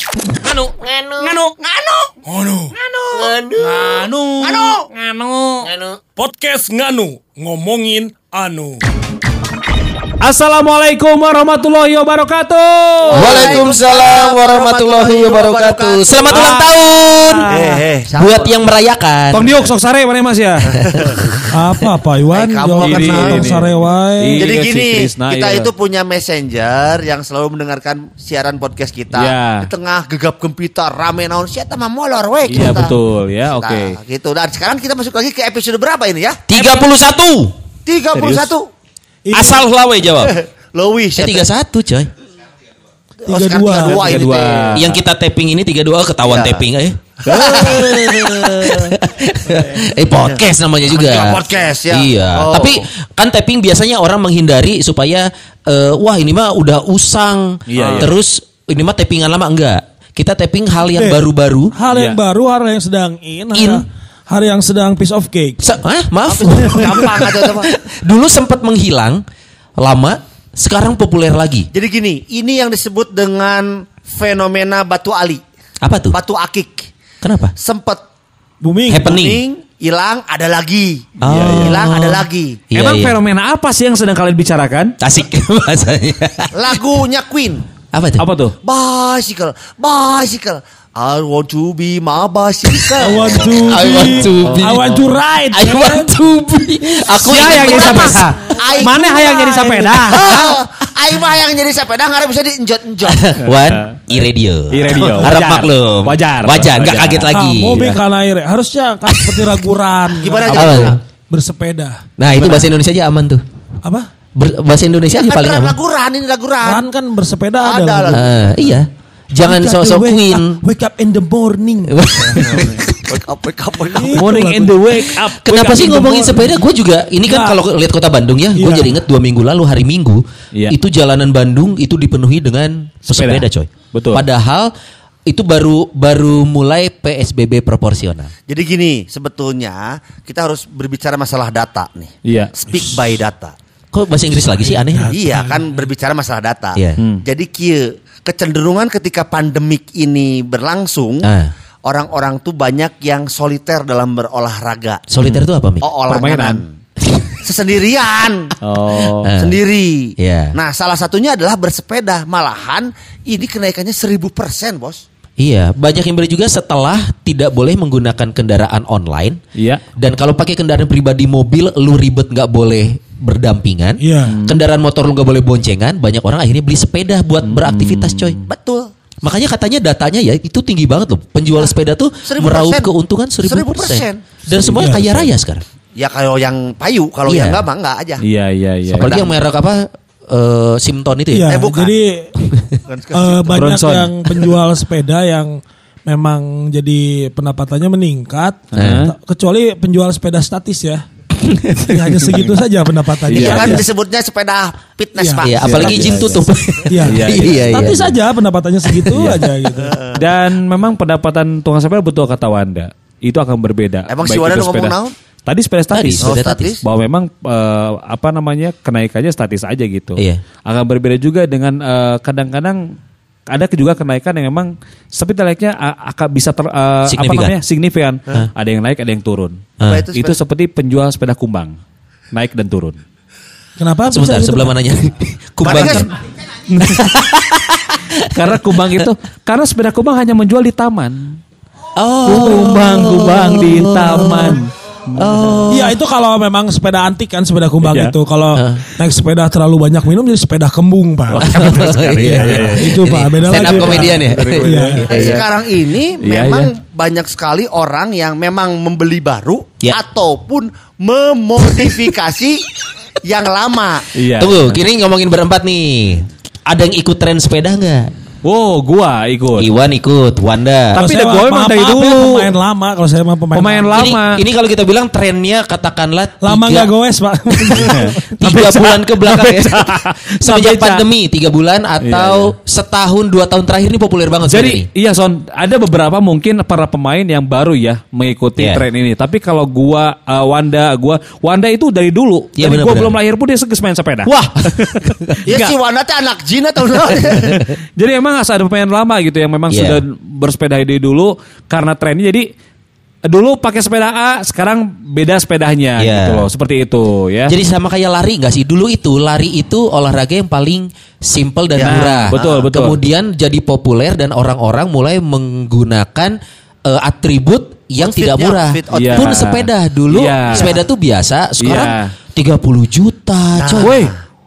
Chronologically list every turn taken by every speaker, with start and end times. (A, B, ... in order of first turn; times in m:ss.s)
0:00.4-0:01.6 A
0:00.8-0:02.1 B
0:02.2-0:02.7 C
0:02.8-0:04.8 B
0:03.6-0:05.7 A
0:05.7-0:06.0 B
0:06.2-0:08.8 C
0:10.2-0:13.6 D
0:13.0-0:16.7 B
0:13.1-0:17.5 E
0:16.3-0:16.7 D
0:17.3-0:17.8 D
0:17.5-0:18.5 B
0:18.1-0:19.5 E
0:19.3-0:20.7 D
0:20.7-0:21.5 B
0:20.8-0:21.4 E
0:21.5-0:24.4 C
0:22.3-0:23.5 B
0:22.8-0:23.7 D
0:24.2-0:25.7 D
0:24.4-0:32.9 B
0:29.1-0:29.7 D
0:32.5-0:34.0 D
0:33.5-0:36.8 B
0:36.5-0:37.5 E
0:37.8-0:38.7 B
0:38.1-0:38.5 D
0:39.2-0:39.6 C
0:39.3-0:40.3 E
0:40.2-0:41.5 B
0:41.2-0:42.1 E
0:43.2-0:44.2 C
0:43.2-0:44.9 B
0:43.8-0:44.9 D
0:44.7-1:01.7 E
0:46.2-0:46.6 B
0:47.2-0:48.9 B
0:47.3-0:47.8 D
0:50.1-0:52.8 B
0:57.7-0:58.1 D
0:57.8-0:58.1 B
1:00.9-1:01.2 C
1:01.7-1:05.6 C
1:01.9-1:02.2 D
1:03.5-1:03.8 E
1:05.6-1:09.2 E
1:06.2-1:07.7 B
1:09.8-1:11.7 E
1:11.7-1:15.4 B
1:15.8-1:16.2 E
1:16.1-1:16.9 B
1:17.2-1:17.5 E
1:17.6-1:18.0 B
1:18.6-1:19.2 C
1:18.9-1:19.4 E
1:19.0-1:22.6 B
1:21.2-1:23.1 E
1:21.2-1:21.8 D
1:22.7-1:24.9 D
1:25.0-1:26.8 E
1:26.5-1:27.6 B
1:27.9-1:28.3 E
1:28.2-1:28.5 D
1:28.6-1:33.9 B
1:33.0-1:36.1 C
1:33.6-1:34.9 E
1:34.4-1:35.2 D
1:35.5-1:38.3 E
1:37.1-1:39.4 B
1:37.2-1:40.5 D
1:39.0-1:40.0 C
1:39.4-1:39.9 A
1:40.0-1:43.3 B
1:43.1-1:48.0 E
1:43.6-1:44.0 D
1:44.7-1:47.3 D
1:47.3-1:52.0 C
1:49.2-1:49.5 E
1:50.1-1:51.0 B
1:50.4-1:51.0 E
1:52.2-1:53.4 E
1:52.4-1:52.7 B
1:54.3-1:55.8 E
1:55.1-1:56.8 B
1:56.6-1:58.2 C
1:57.6-1:58.3 B
1:58.1-2:00.6 E
1:59.4-2:02.0 C
2:01.8-2:03.0 E
2:02.3-2:04.2 B
2:03.9-2:04.8 C
2:04.1-2:06.5 D
2:05.2-2:14.7 E
2:07.2-2:07.6 C
2:08.5-2:09.0 C
2:13.1-2:14.2 D
2:15.3-2:18.3 E
2:18.5-2:23.5 B
2:22.2-2:22.5 D
2:23.9-2:25.2 E
2:24.9-2:25.6 C
2:25.1-2:31.3 B
2:26.7-2:27.0 E
2:31.2-2:31.5 E
2:31.8-2:35.0 B
2:35.1-2:35.8 E
2:35.8-2:36.7 B
2:36.1-2:36.6 D
2:37.4-2:38.5 B
2:38.6-2:39.3 D
2:39.0-2:39.6 E
2:39.4-2:45.0 B
2:40.2-2:40.5 E
2:45.4-2:49.4 E
2:49.6-2:49.8 D
2:50.0-2:58.4 E
2:54.0-2:54.3 C
2:54.3-2:54.6 D
2:57.4-2:58.4 D
2:58.4-2:58.9 B
2:59.2-3:05.6 E
3:02.2-3:02.9 B
3:03.4-3:04.3 B
3:04.7-3:05.1 C
3:06.0-3:08.2 B
3:07.2-3:07.6 E
3:08.2-3:09.2 D
3:08.9-3:11.7 E
3:09.0-3:09.3 B
3:11.3-3:12.3 C
3:11.5-3:11.9 B
3:12.4-3:12.8 E
3:12.8-3:13.6 B
3:13.1-3:21.0 C
3:13.5-3:14.1 D
3:18.7-3:19.1 D
3:18.7-3:19.1 E
3:21.4-3:22.5 E
3:21.8-3:23.8 C
3:23.3-3:23.8 E
3:23.3-3:26.4 B
3:23.3-3:23.8 D
3:25.2-3:25.5 C
3:25.4-3:28.1 E
3:25.6-3:26.4 D
3:26.9-3:30.0 C
3:27.1-3:27.8 D
3:28.9-3:29.2 E
3:29.1-3:29.5 D
3:29.8-3:30.2 B
3:30.1-3:34.9 D
3:34.1-3:35.1 B
3:35.4-3:42.8 D
3:35.9-3:36.7 E
3:36.2-3:36.8 B
3:40.2-3:40.4 E
3:43.5-3:51.7 D
3:47.1-3:47.6 E
3:49.8-3:50.0 E
3:49.8-3:50.4 B
3:52.3-3:53.0 D
3:53.8-3:54.7 C
3:54.1-3:56.1 E
3:55.6-3:56.1 B
3:56.7-3:57.0 D
3:56.8-3:59.1 E
3:58.3-4:01.4 D
4:02.0-4:04.6 E
4:02.2-4:05.2 D
4:05.1-4:06.0 E
4:05.7-4:11.5 C
4:07.8-4:08.1 D
4:08.5-4:08.8 E
4:11.3-4:13.0 D
4:11.4-4:15.4 E
4:12.2-4:15.0 C
4:13.5-4:15.4 D
4:15.1-4:22.7 B
4:16.2-4:16.7 D
4:21.6-4:21.9 E
4:23.2-4:24.0 B
4:24.1-4:24.8 D
4:24.4-4:28.1 E
4:28.4-4:29.7 D
4:29.6-4:31.0 E
4:30.9-4:32.5 D
4:30.9-4:34.0 C
4:33.5-4:34.4 D
4:33.9-4:36.9 E
4:36.4-4:38.2 C
4:37.5-4:44.9 E
4:37.8-4:41.0 D
4:42.0-4:42.5 D
4:44.5-4:55.7 D
4:48.6-4:48.8 E
4:52.6-4:53.2 E
4:54.2-4:55.4 E
4:55.4-4:57.7 B
4:57.1-4:57.6 E
4:58.0-5:02.4 D
4:59.7-5:00.0 E
5:03.2-5:07.5 D
5:06.0-5:06.5 E
5:07.5-5:23.9 E
5:11.7-5:12.6 B
5:11.8-5:13.0 D
5:18.0-5:19.3 B
5:18.9-5:20.8 D
5:20.5-5:20.8 B
5:21.6-5:22.1 D
5:23.6-5:24.1 B
5:23.8-5:24.1 D